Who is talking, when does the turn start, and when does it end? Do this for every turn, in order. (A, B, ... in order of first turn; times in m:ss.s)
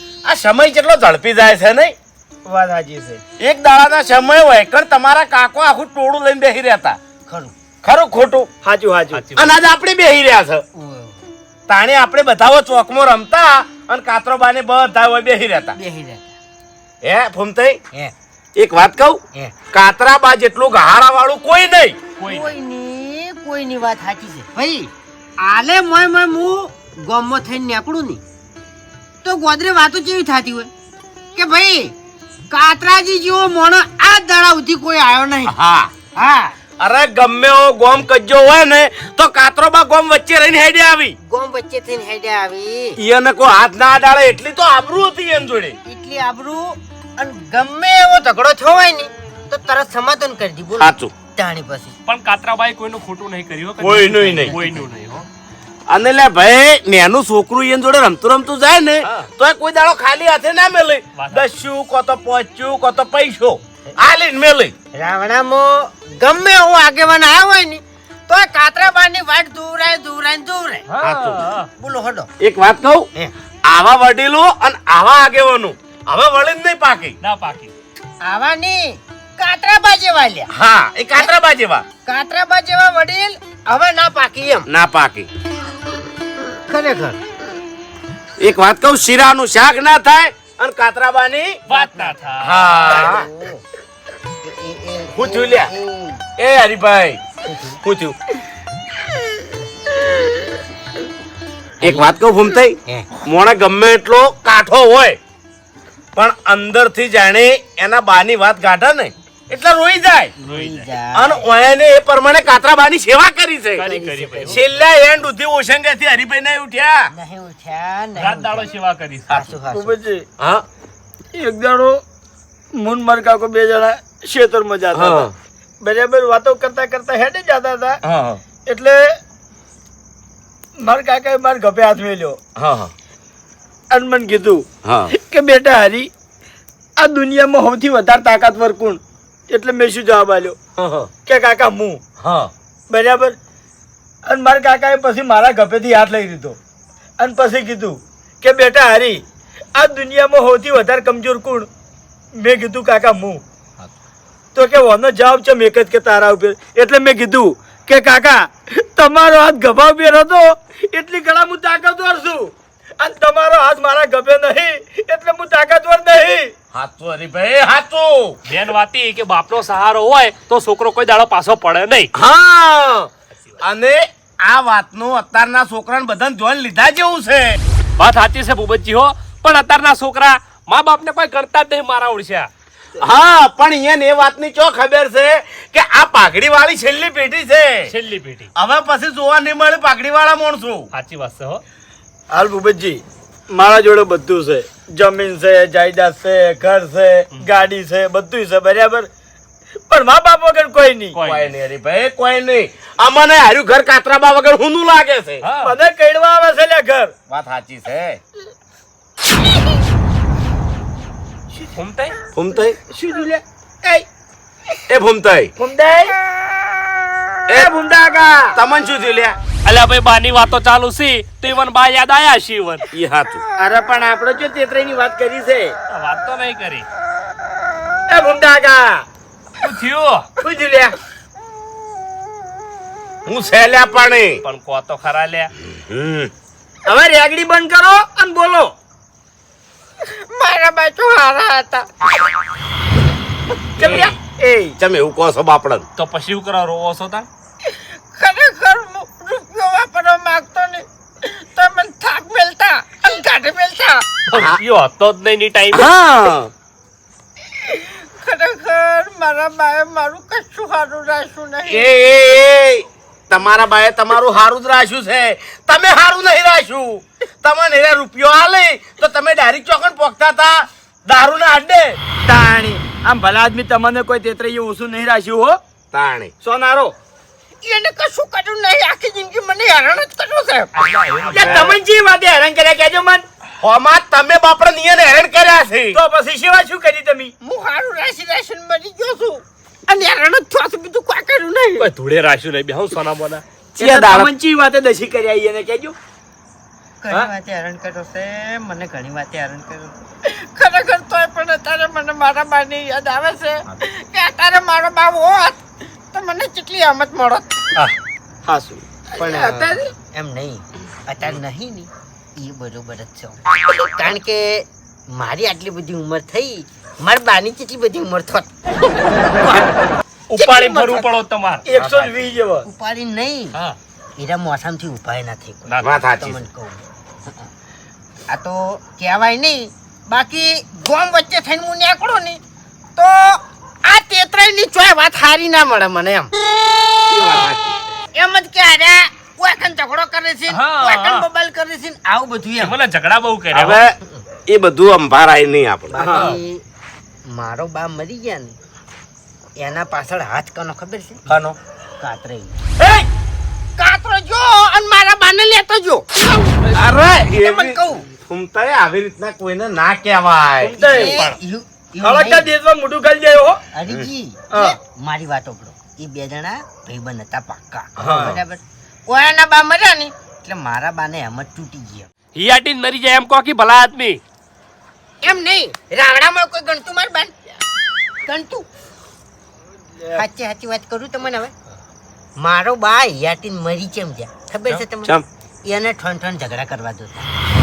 0:00.2-0:01.9 A
0:02.4-0:03.2 B
0:03.4-0:07.0 A
0:07.2-0:07.5 C
0:07.8-0:08.5 A
0:08.6-0:09.2 B
0:09.1-0:09.5 D
0:09.3-0:10.6 A
0:10.7-0:11.3 C
0:11.7-0:15.7 A
0:15.7-0:16.3 C
0:17.0-0:17.8 A
0:18.6-0:19.2 A
0:19.7-0:22.0 A
0:22.2-0:22.5 D
0:22.2-0:28.2 C
0:29.2-0:30.7 C
0:31.3-0:31.9 C
0:32.5-0:35.5 C
0:35.5-0:35.9 A
0:36.1-0:36.5 C
0:36.8-0:41.2 A
0:41.2-0:43.0 C
0:43.0-0:45.8 A
0:45.8-0:51.9 C
0:50.8-0:51.1 A
0:52.0-0:55.3 D
0:53.8-0:54.6 A
0:54.2-0:54.9 C
0:55.9-1:04.7 A
1:01.2-1:01.4 D
1:04.9-1:10.9 C
1:10.9-1:11.7 D
1:11.0-1:11.5 A
1:11.8-1:12.3 C
1:12.4-1:13.0 A
1:13.7-1:17.2 A
1:17.2-1:17.7 D
1:18.2-1:20.5 C
1:20.5-1:21.8 A
1:22.0-1:24.7 C
1:24.7-1:25.3 A
1:26.7-1:27.2 C
1:28.4-1:31.6 A
1:31.7-1:33.1 D
1:31.7-1:33.6 C
1:32.4-1:33.3 A
1:34.4-1:36.2 C
1:35.1-1:35.7 A
1:36.4-1:37.2 A
1:37.4-1:37.8 C
1:37.8-1:38.1 A
1:41.8-1:42.1 C
1:41.8-1:45.2 A
1:46.1-1:50.3 A
1:50.4-1:51.5 C
1:50.4-1:50.9 D
1:51.1-1:53.8 A
1:53.8-1:54.6 D
1:53.8-1:54.7 C
1:54.4-1:57.1 A
1:57.1-1:58.7 C
1:58.2-1:59.5 D
1:59.3-2:00.0 C
1:59.7-2:00.2 B
2:00.4-2:00.6 A
2:01.3-2:02.0 B
2:02.7-2:05.3 B
2:04.9-2:05.3 A
2:05.8-2:08.0 B
2:08.0-2:08.4 A
2:08.5-2:09.2 B
2:10.8-2:12.4 B
2:12.6-2:12.9 A
2:13.9-2:16.1 B
2:14.8-2:15.1 A
2:17.0-2:20.6 B
2:20.8-2:21.1 A
2:21.2-2:22.0 B
2:22.2-2:22.5 A
2:22.9-2:23.4 B
2:24.3-2:26.6 B
2:27.2-2:29.2 B
2:29.7-2:31.7 B
2:32.4-2:33.4 B
2:34.5-2:46.5 B
2:46.7-2:48.4 A
2:48.4-2:52.1 D
2:52.1-2:57.6 A
2:58.0-3:02.5 D
3:03.0-3:07.9 A
3:07.9-3:08.5 D
3:08.5-3:10.9 A
3:10.9-3:11.6 D
3:12.3-3:19.1 B
3:19.9-3:21.2 B
3:21.1-3:21.5 D
3:21.2-3:25.4 A
3:25.4-3:25.8 D
3:25.6-3:27.1 B
3:27.3-3:28.2 A
3:31.7-3:32.2 D
3:32.3-3:32.8 A
3:32.9-3:34.0 B
3:34.9-3:35.5 A
3:35.6-3:36.1 B
3:37.5-3:38.6 B
3:38.5-3:39.4 A
3:39.6-3:42.8 D
3:42.9-3:43.4 A
3:43.6-3:45.7 B
3:45.9-3:46.8 D
3:48.1-3:49.0 B
3:49.6-3:50.3 D
3:50.4-3:51.0 B
3:53.2-3:54.4 A
3:54.4-3:55.5 D
3:55.8-3:56.3 A
3:56.8-3:58.7 B
4:00.0-4:01.9 C
4:03.8-4:04.8 B
4:03.8-4:04.1 A
4:03.8-4:04.1 D
4:04.8-4:05.8 A
4:06.0-4:07.3 D
4:07.6-4:14.2 C
4:14.3-4:15.9 D
4:14.3-4:14.6 A
4:15.7-4:16.5 A
4:17.5-4:21.9 C
4:21.6-4:32.0 A
4:32.2-4:35.6 B
4:35.9-4:36.3 A
4:36.4-4:36.9 B
4:37.6-4:40.7 C
4:40.7-4:41.8 A
4:41.3-4:43.2 B
4:43.6-4:46.0 A
4:45.9-4:47.3 B
4:47.4-4:51.9 C
4:51.8-4:53.4 D
4:53.7-4:55.9 B
4:53.8-4:54.3 A
4:57.0-5:05.6 C
5:06.1-5:07.5 C
5:08.5-5:08.8 B
5:09.1-5:19.7 C
5:20.3-5:21.6 D
5:20.4-5:21.0 C
5:21.6-5:22.7 B
5:21.7-5:22.2 A
5:22.6-5:23.6 C
5:24.2-5:26.8 C
5:25.7-5:26.0 D
5:25.8-5:26.4 A
5:28.3-5:32.4 C
5:33.0-5:36.3 C
5:37.1-5:37.6 A
5:38.1-5:42.8 C
5:40.5-5:41.3 D
5:42.6-5:43.8 D
5:43.5-5:43.9 A
5:44.5-5:46.4 A
5:45.9-5:46.6 C
5:46.0-5:46.4 D
5:47.2-5:48.6 C
5:49.6-5:51.3 C
5:51.3-5:51.6 A
5:52.0-5:52.6 C
5:52.8-5:53.1 B
5:53.8-5:56.4 C
5:56.7-6:00.8 A
5:57.4-5:58.0 C
6:00.6-6:01.2 B
6:00.7-6:02.5 C
6:00.9-6:01.4 D
6:02.0-6:03.6 B
6:03.7-6:12.1 C
6:04.5-6:04.8 B
6:08.0-6:08.4 A
6:12.3-6:14.2 D
6:15.2-6:17.3 C
6:18.2-6:18.6 C
6:20.0-6:20.2 B
6:20.1-6:21.5 C
6:22.4-6:27.3 C
6:24.7-6:25.2 A